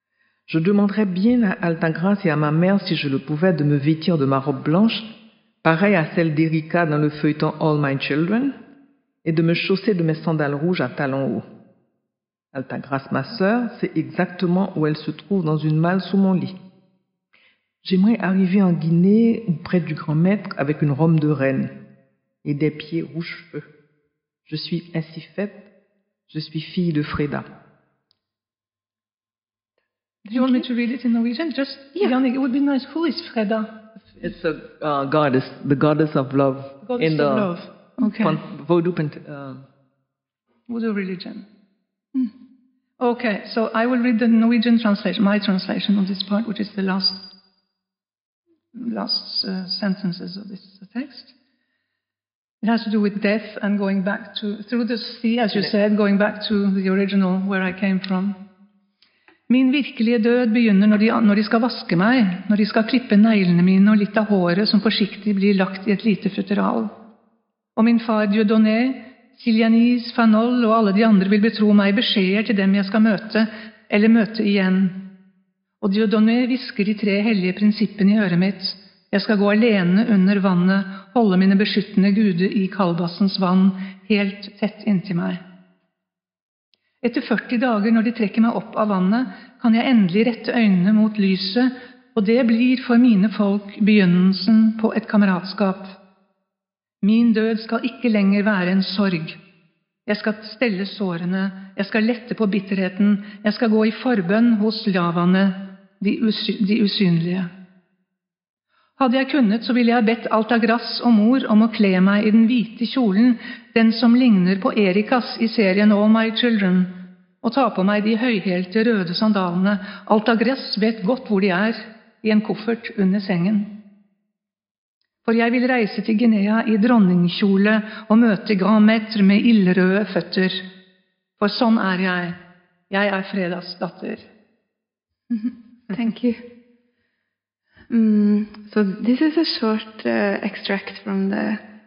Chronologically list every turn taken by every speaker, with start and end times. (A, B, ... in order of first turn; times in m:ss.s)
0:00.5-0:08.6 A
0:09.2-0:11.5 A
0:12.5-0:16.6 A
0:17.8-0:21.8 A
0:22.4-0:23.7 A
0:24.5-0:25.7 A
0:26.3-0:27.5 A
0:30.3-0:34.2 B
0:30.3-0:30.6 C
0:34.2-0:37.5 A
0:36.8-0:38.4 B
0:38.2-0:39.7 A
0:40.7-0:41.5 B
0:43.0-0:47.3 B
0:48.7-0:51.3 B
0:52.6-0:58.4 B
0:59.5-1:07.0 B
1:07.8-1:15.0 B
1:15.8-1:25.4 B
1:27.0-1:35.9 B
1:37.0-1:39.4 B
1:40.1-1:47.5 B
1:49.0-2:03.8 B
2:05.2-2:10.7 B
2:11.4-2:12.4 B
2:12.9-2:14.3 B
2:15.3-2:16.5 C
2:17.9-2:21.6 C